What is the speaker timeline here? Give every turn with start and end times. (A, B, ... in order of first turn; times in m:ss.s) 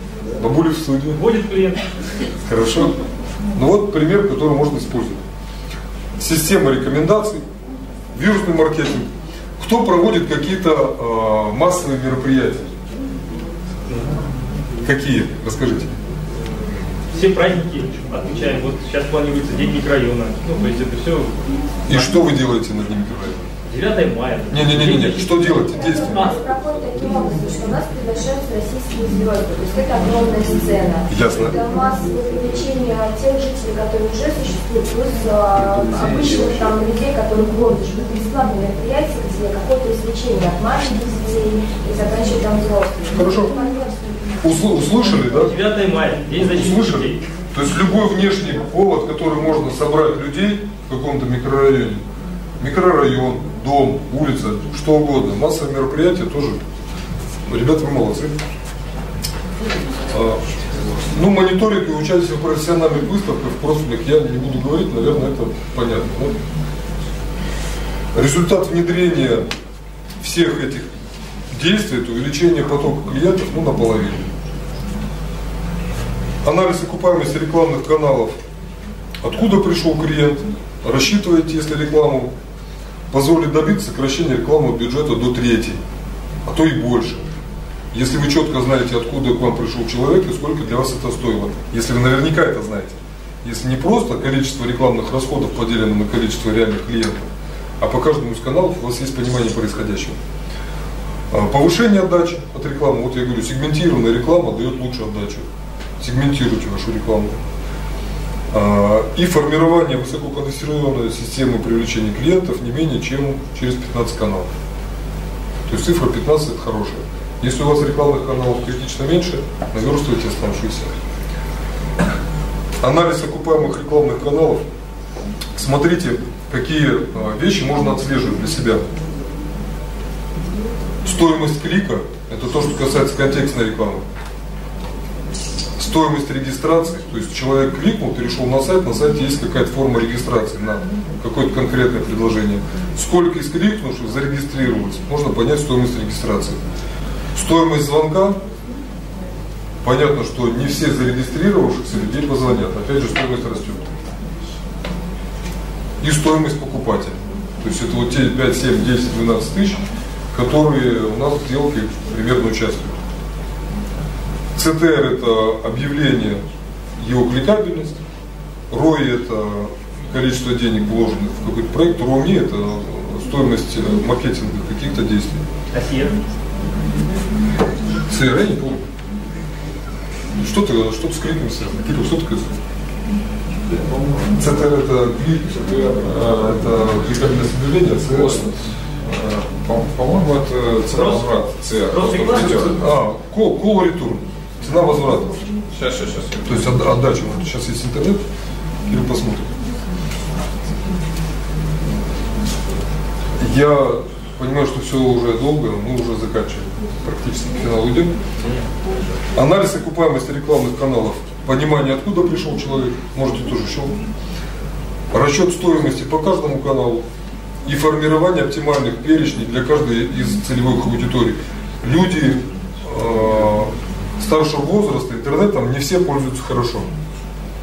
0:00.4-0:01.2 A
0:01.1-0:01.8 B
0:02.4-0:03.0 A
0:03.5-0:05.2 A
0:06.2-0:07.4 A
0:08.1-0:12.7 A
0:14.8-0:15.9 A
0:17.1-0:21.3 B
0:21.9-0:23.4 A
0:23.6-0:25.4 B
0:24.5-0:26.3 A
0:25.5-0:44.0 C
0:31.1-0:31.6 A
0:43.1-0:43.6 A
0:44.4-0:45.5 A
0:45.4-0:47.2 B
0:46.4-0:52.0 A
0:52.6-0:56.6 A
0:57.5-0:58.3 A
1:00.1-1:00.4 A
1:01.1-1:06.3 A
1:08.1-1:09.5 A
1:10.2-1:10.9 A
1:11.5-1:14.3 A
1:16.4-1:18.4 A
1:19.2-1:22.3 A
1:23.1-1:25.8 A
1:26.4-1:27.3 A
1:27.9-1:37.3 A
1:37.8-1:40.2 A
1:41.3-1:45.4 A
1:46.0-1:47.3 A
1:48.5-1:54.5 A
1:55.7-2:00.9 A
2:02.8-2:04.6 A
2:05.6-2:08.8 A
2:11.0-2:14.0 A
2:15.8-2:26.6 A
2:27.3-2:28.4 A
2:29.8-2:33.9 A
2:36.0-2:43.0 A
2:44.6-2:46.4 A
2:47.0-2:48.0 A
2:48.7-2:55.4 A
2:55.7-2:56.2 B
2:58.1-2:58.8 A
3:00.3-3:02.6 A
3:03.7-3:04.2 D
3:04.3-3:05.6 A
3:05.6-3:06.6 D
3:06.3-3:08.4 A
3:08.1-3:12.8 D
3:10.9-3:11.3 B
3:11.9-3:12.7 B
3:12.4-3:15.4 A
3:15.7-3:16.8 D
3:16.4-3:18.2 A
3:18.8-3:19.6 A
3:23.4-3:28.2 A
3:29.3-3:34.0 A
3:35.1-3:37.0 A
3:37.6-3:46.9 A